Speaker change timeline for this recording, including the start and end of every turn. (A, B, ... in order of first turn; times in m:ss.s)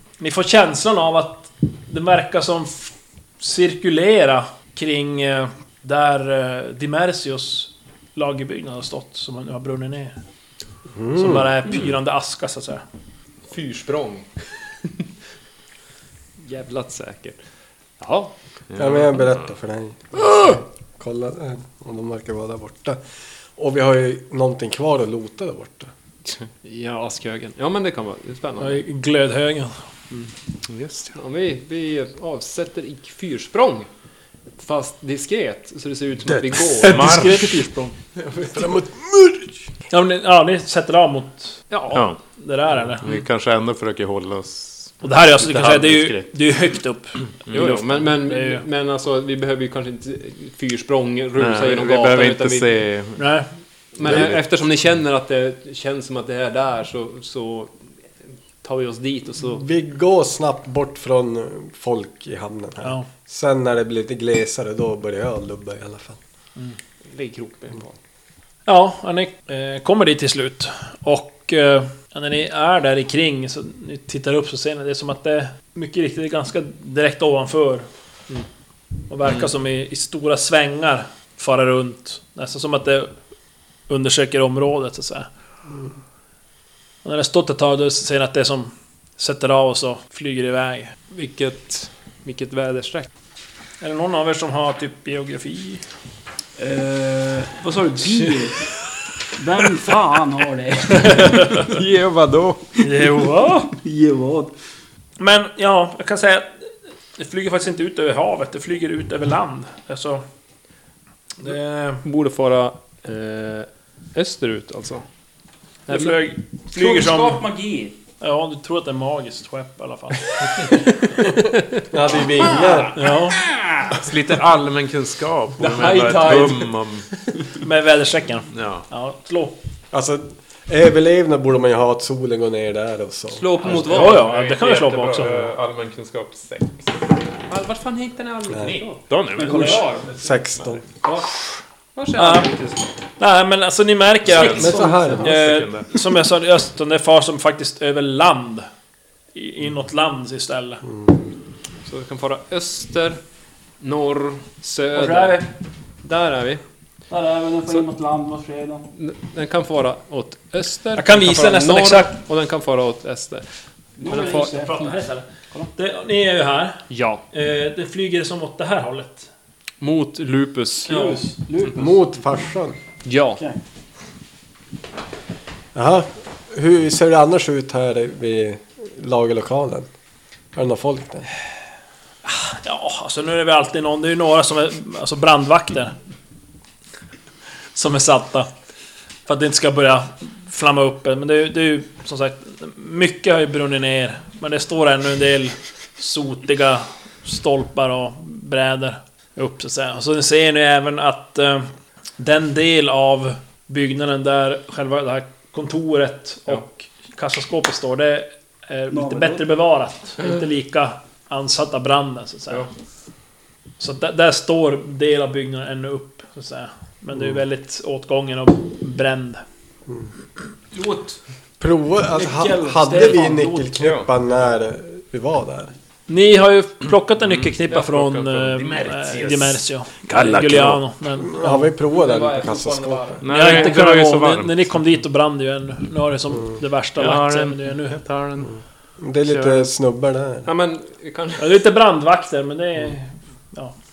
0:00.2-0:10.2 A
0:10.9-0:11.5 B
0:11.1-0:12.8 A
0:13.5-0:14.3 C
0:16.4-0:17.4 C
0:18.0-0:18.3 C
0:18.7-0:19.4 D
0:18.8-0:23.0 B
0:23.6-0:25.9 B
0:26.3-0:28.8 C
0:28.6-0:29.8 A
0:30.6-0:31.2 D
0:31.1-0:33.9 C
0:34.6-0:37.4 C
0:36.8-0:37.5 D
0:36.8-0:37.9 A
0:38.5-0:39.6 B
0:39.9-0:41.7 A
0:41.7-0:42.1 C
0:41.9-0:42.2 D
0:42.3-0:43.1 A
0:43.0-0:46.3 D
0:45.0-0:48.6 A
0:47.4-0:47.8 D
0:47.5-0:52.8 C
0:51.4-0:53.2 D
0:53.2-0:53.5 A
0:53.9-0:57.7 C
0:54.0-0:54.4 D
0:58.6-0:59.6 C
0:59.4-1:06.2 B
1:02.8-1:03.1 A
1:07.1-1:08.0 C
1:08.7-1:17.9 A
1:19.1-1:23.1 A
1:23.9-1:25.3 A
1:27.0-1:30.9 A
1:31.1-1:33.1 C
1:33.8-1:35.8 A
1:36.6-1:38.7 E
1:39.3-1:41.7 E
1:41.1-1:41.4 A
1:41.6-1:42.6 C
1:42.8-1:43.8 A
1:43.8-1:44.5 E
1:45.2-1:46.6 A
1:47.2-1:50.2 A
1:51.4-1:52.0 A
1:52.0-1:55.0 C
1:55.9-1:57.4 A
1:56.7-1:57.9 E
1:58.2-2:00.7 A
2:01.3-2:01.8 C
2:01.9-2:03.0 B
2:02.2-2:04.0 E
2:02.9-2:03.4 A
2:03.9-2:07.1 D
2:05.6-2:06.7 C
2:07.6-2:09.6 A
2:08.5-2:08.8 D
2:09.9-2:13.5 B
2:13.3-2:14.8 C
2:13.7-2:15.4 A
2:13.8-2:16.9 D
2:17.5-2:20.1 C
2:18.5-2:18.8 B
2:18.7-2:20.1 D
2:19.4-2:20.0 E
2:20.1-2:20.8 B
2:21.9-2:22.9 C
2:22.1-2:22.5 A
2:23.2-2:28.7 A
2:24.3-2:25.9 D
2:24.4-2:25.3 B
2:29.3-2:30.8 A
2:30.8-2:31.1 B
2:31.8-2:33.2 C
2:33.8-2:35.4 C
2:34.9-2:35.5 E
2:36.0-2:36.6 C
2:37.1-2:38.8 E
2:38.9-2:43.4 C
2:41.0-2:42.2 A
2:44.0-2:44.9 E
2:44.0-2:44.5 C
2:44.0-2:49.3 A
2:46.9-2:47.2 C
2:49.8-2:51.0 C
2:50.9-2:51.4 A
2:50.9-2:52.0 E
2:51.7-2:52.8 B
2:53.0-2:53.4 C
2:55.7-2:59.9 B
3:00.5-3:01.3 B
3:02.2-3:05.9 A
3:07.7-3:08.5 A
3:09.3-3:32.7 A
3:28.9-3:29.4 E
3:33.8-3:39.4 A
3:40.7-3:41.2 E
3:41.6-3:45.7 B
3:42.1-3:43.8 E
3:43.8-3:44.1 D
3:46.1-3:51.7 A
3:47.3-3:49.6 D
3:50.1-3:50.8 D
3:51.2-3:53.2 B
3:51.8-3:53.8 C
3:53.2-3:54.8 D
3:53.3-3:58.0 A
3:57.0-3:58.5 D
3:59.0-4:00.5 B
3:59.2-3:59.6 D
4:00.4-4:01.6 C
4:01.4-4:03.7 A